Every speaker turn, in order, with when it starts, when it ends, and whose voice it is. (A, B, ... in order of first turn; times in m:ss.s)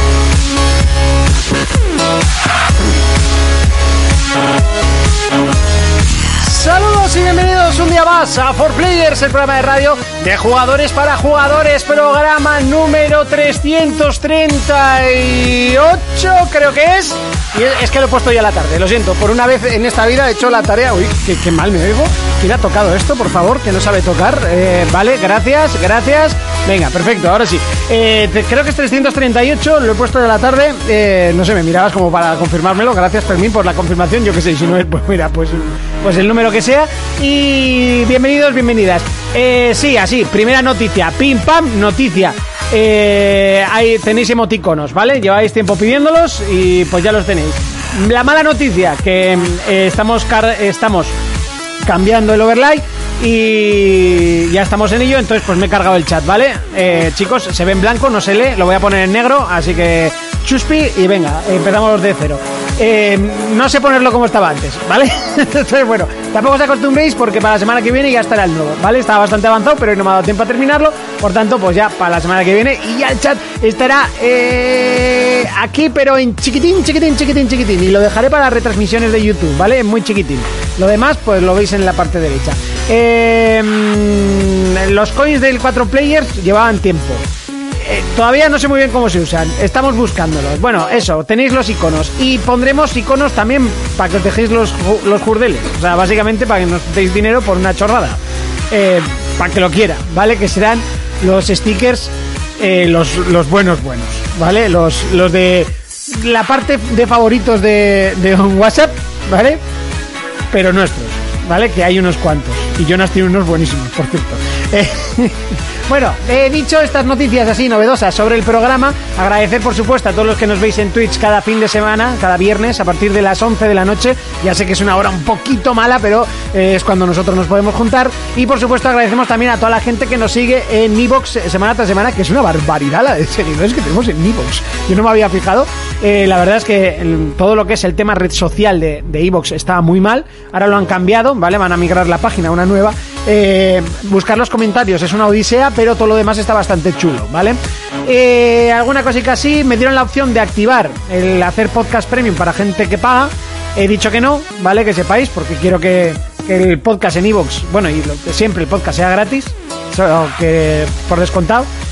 0:06.4-0:51.1 A
0:51.8-1:27.2 A
1:27.8-1:38.2 A
1:38.7-1:49.6 A
1:50.5-2:41.7 A